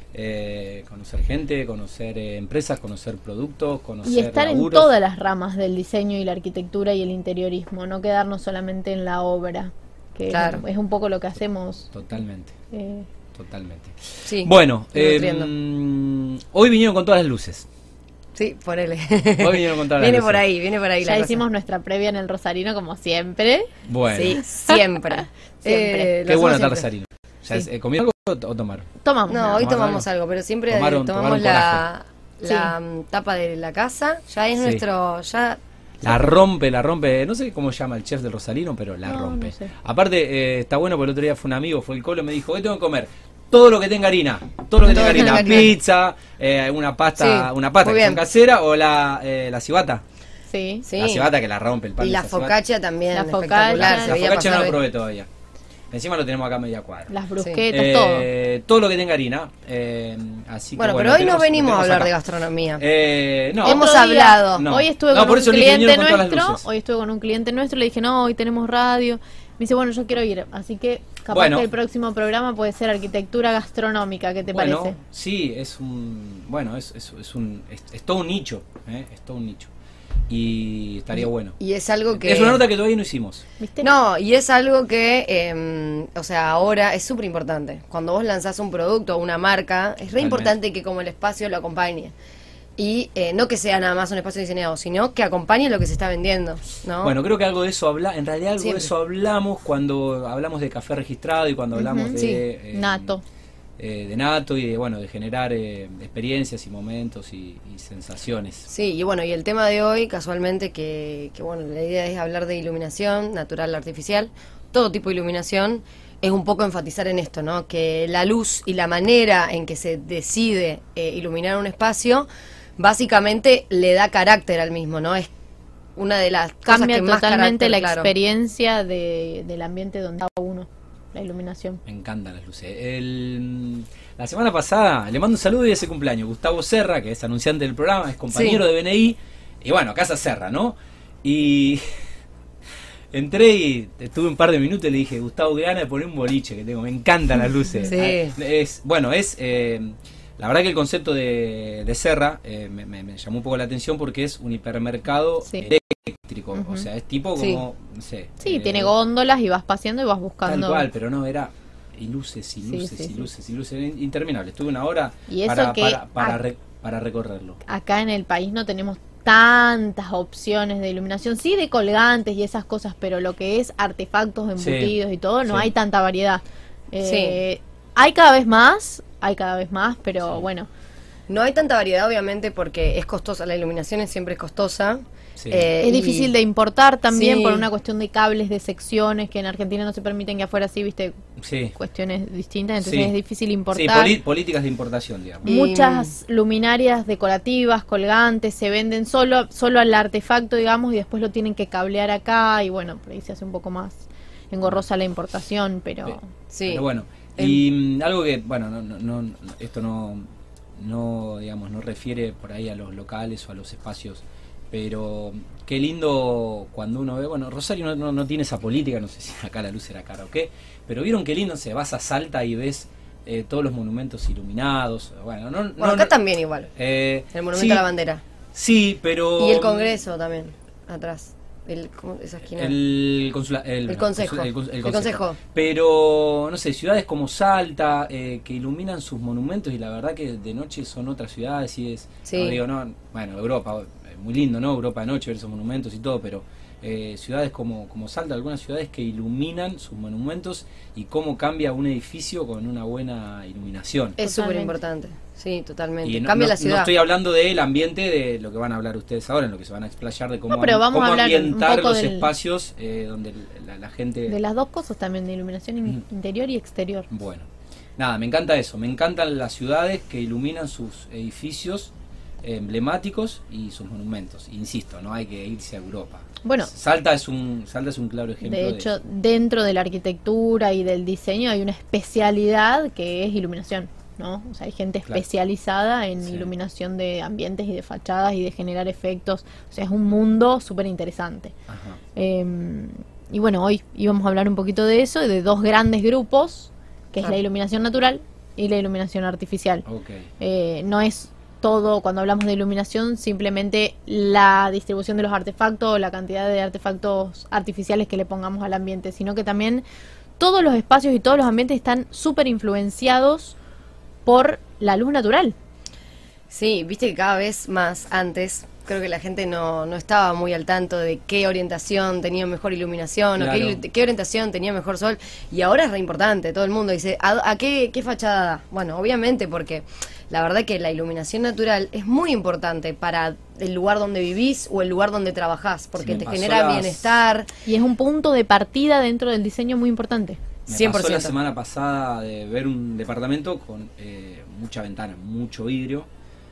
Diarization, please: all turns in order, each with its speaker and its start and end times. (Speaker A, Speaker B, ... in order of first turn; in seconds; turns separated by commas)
Speaker A: 0.1-4.9, Speaker B: 4.0-11.9, Speaker C: 10.3-10.6, Speaker A: 11.9-12.5, Speaker B: 12.7-13.1, Speaker A: 13.3-17.7, Speaker C: 14.2-15.5, Speaker C: 18.3-21.4, Speaker A: 19.4-20.4, Speaker B: 21.0-23.7, Speaker A: 23.9-24.4, Speaker C: 24.1-26.9, Speaker B: 25.6-26.1, Speaker A: 26.2-28.9, Speaker B: 29.0-29.7, Speaker C: 29.3-36.3, Speaker A: 29.6-30.1, Speaker A: 30.7-31.8, Speaker B: 32.5-32.7, Speaker A: 36.0-50.0, Speaker B: 39.1-39.7, Speaker C: 44.8-45.7, Speaker C: 47.2-48.2, Speaker B: 50.5-50.9, Speaker C: 50.8-51.3, Speaker A: 51.0-52.6, Speaker C: 52.0-54.8, Speaker B: 53.1-54.7, Speaker A: 53.8-55.3, Speaker A: 55.9-57.1, Speaker B: 57.1-58.3, Speaker A: 57.7-62.1, Speaker C: 60.8-62.8, Speaker A: 62.8-63.9, Speaker C: 63.6-64.7, Speaker B: 63.6-75.0, Speaker A: 64.5-66.6, Speaker A: 71.3-71.7, Speaker A: 74.5-79.7, Speaker A: 80.3-81.6, Speaker C: 81.6-82.7, Speaker A: 82.1-83.4, Speaker B: 83.6-83.9, Speaker C: 83.8-92.1, Speaker A: 90.2-90.5, Speaker C: 92.8-97.2, Speaker A: 97.0-103.2, Speaker C: 98.6-98.9, Speaker B: 101.8-102.2, Speaker C: 102.1-102.4, Speaker B: 102.7-103.2, Speaker A: 103.8-108.7, Speaker C: 108.7-125.3, Speaker C: 126.0-128.1, Speaker B: 126.7-131.8, Speaker A: 131.9-141.9, Speaker C: 138.3-138.6, Speaker A: 143.1-158.9, Speaker C: 147.9-148.3, Speaker B: 156.6-156.9, Speaker C: 157.4-157.6, Speaker B: 158.4-160.9, Speaker A: 160.4-167.6, Speaker B: 162.7-163.3, Speaker B: 165.3-166.4, Speaker B: 167.7-180.7, Speaker A: 174.6-174.9, Speaker A: 175.4-175.7, Speaker C: 177.0-177.4, Speaker C: 181.3-186.3, Speaker A: 185.4-185.7, Speaker B: 185.8-191.2, Speaker C: 187.1-187.7, Speaker A: 191.4-191.8, Speaker B: 191.8-194.1, Speaker A: 192.8-193.1, Speaker A: 193.7-195.5, Speaker C: 195.4-196.1, Speaker B: 195.4-206.2, Speaker A: 206.1-210.2, Speaker C: 206.5-206.8, Speaker A: 210.8-226.1, Speaker C: 225.8-226.7, Speaker A: 226.8-227.8, Speaker C: 227.3-228.2, Speaker A: 228.5-230.0, Speaker C: 229.4-232.8, Speaker A: 232.6-254.2, Speaker C: 233.9-235.4, Speaker C: 242.2-242.6, Speaker C: 254.2-256.9, Speaker B: 254.2-254.8, Speaker A: 256.1-264.4, Speaker B: 260.5-262.3, Speaker B: 264.3-267.1, Speaker A: 267.1-267.5, Speaker A: 268.0-278.9, Speaker B: 276.4-276.7, Speaker B: 278.4-291.5, Speaker A: 286.2-286.5, Speaker A: 291.7-292.0, Speaker B: 292.2-299.9, Speaker A: 299.9-300.2, Speaker B: 300.4-309.9, Speaker B: 310.4-313.6, Speaker B: 314.2-315.6, Speaker C: 316.5-337.5, Speaker A: 323.4-323.8, Speaker A: 336.0-337.1, Speaker B: 337.7-340.4, Speaker C: 340.7-341.4, Speaker A: 340.7-346.1